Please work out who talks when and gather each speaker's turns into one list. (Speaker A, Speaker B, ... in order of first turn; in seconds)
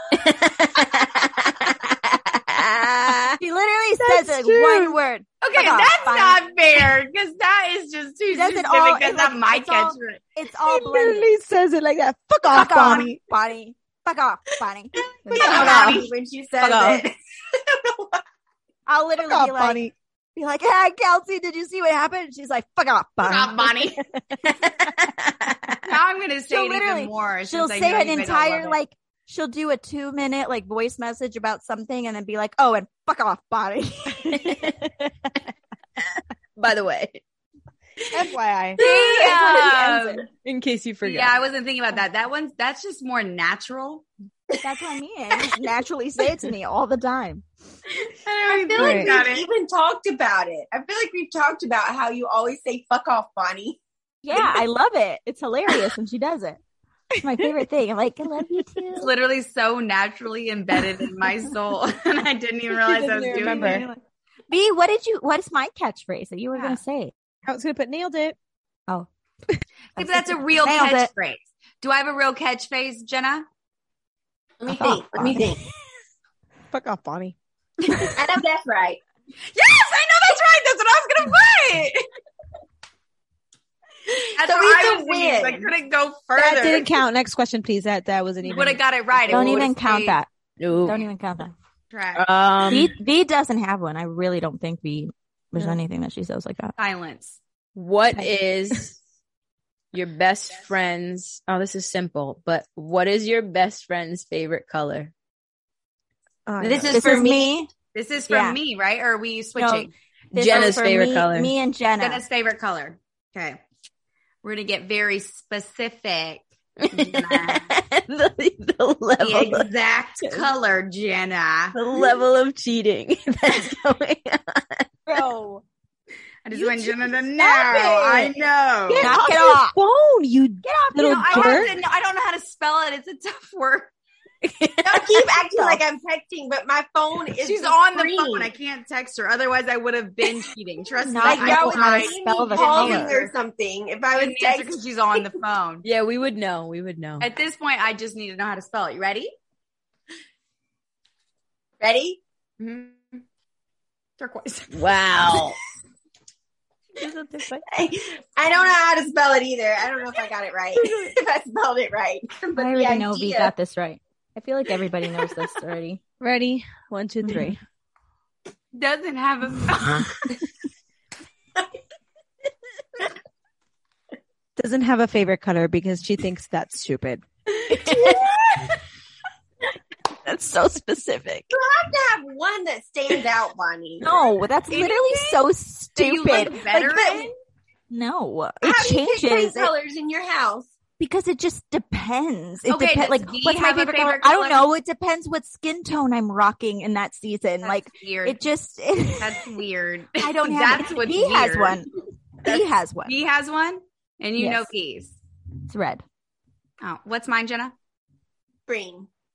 Speaker A: 0.1-3.4, 15.4-16.0, 16.6-17.1, 24.6-25.5, 34.3-35.1, 36.6-37.2, 39.1-41.4, 62.9-63.7, 90.6-91.0, 92.2-92.9, 97.8-99.0, 99.9-105.1, 110.3-111.5, 116.8-119.7, 120.2-120.5, 121.7-124.9, 134.4-135.3, 145.8-147.3, 154.7-155.6, 177.7-178.3, 180.2-181.5
Speaker B: 3.4-6.4, 8.3-11.3, 12.5-14.9, 15.5-15.8, 18.9-23.9, 26.5-34.7, 44.6-47.4, 54.2-56.6, 57.2-59.1, 63.3-64.0, 64.5-67.1, 70.0-71.1, 74.7-75.6, 89.3-90.3, 90.8-91.5, 92.7-96.8, 106.9-107.7, 108.3-108.6, 109.6-112.2, 125.1-125.6, 128.9-129.8, 130.6-131.7, 135.6-135.8, 141.0-143.2, 157.0-157.6, 162.6-166.0, 167.3-167.5, 184.0-186.6, 187.9-189.7, 191.0-199.5, 200.2-201.9, 202.4-203.2, 204.4-204.7, 205.7-206.0
Speaker C: 4.0-5.0, 10.6-13.2, 19.2-19.9, 38.1-38.8, 48.8-49.1, 63.2-63.8, 67.5-68.4, 76.7-77.4, 77.9-78.1, 86.4-89.6, 106.5-107.2, 125.1-125.6, 126.5-128.3, 128.9-131.7, 166.2-167.6, 174.6-177.2
Speaker D: 5.4-10.2, 15.2-16.1, 23.2-24.0, 25.9-28.8, 38.8-40.2, 41.0-44.1, 48.2-49.5, 59.0-63.9, 66.5-66.8, 70.0-73.5, 79.5-82.0, 84.3-86.9, 88.4-90.2, 91.9-92.3, 96.8-97.4, 107.9-109.9, 112.0-113.6, 114.4-117.7, 119.2-121.8, 126.5-129.2, 131.0-133.9, 137.4-143.3, 144.1-145.8, 147.2-149.3, 152.6-153.2, 154.2-155.5, 168.7-170.3, 184.7-185.4, 186.0-187.3, 192.7-194.7, 197.6-198.4, 199.2-201.8, 202.5-205.2, 206.8-207.7
Speaker E: 15.2-18.2, 39.0-39.3, 48.4-53.8, 74.6-75.6, 78.1-79.0, 84.4-85.7, 106.6-107.5, 134.8-138.5, 141.2-145.2, 151.8-152.2, 157.7-163.5, 177.9-178.6, 181.5-184.1, 186.7-187.3, 188.6-190.7, 208.7-209.1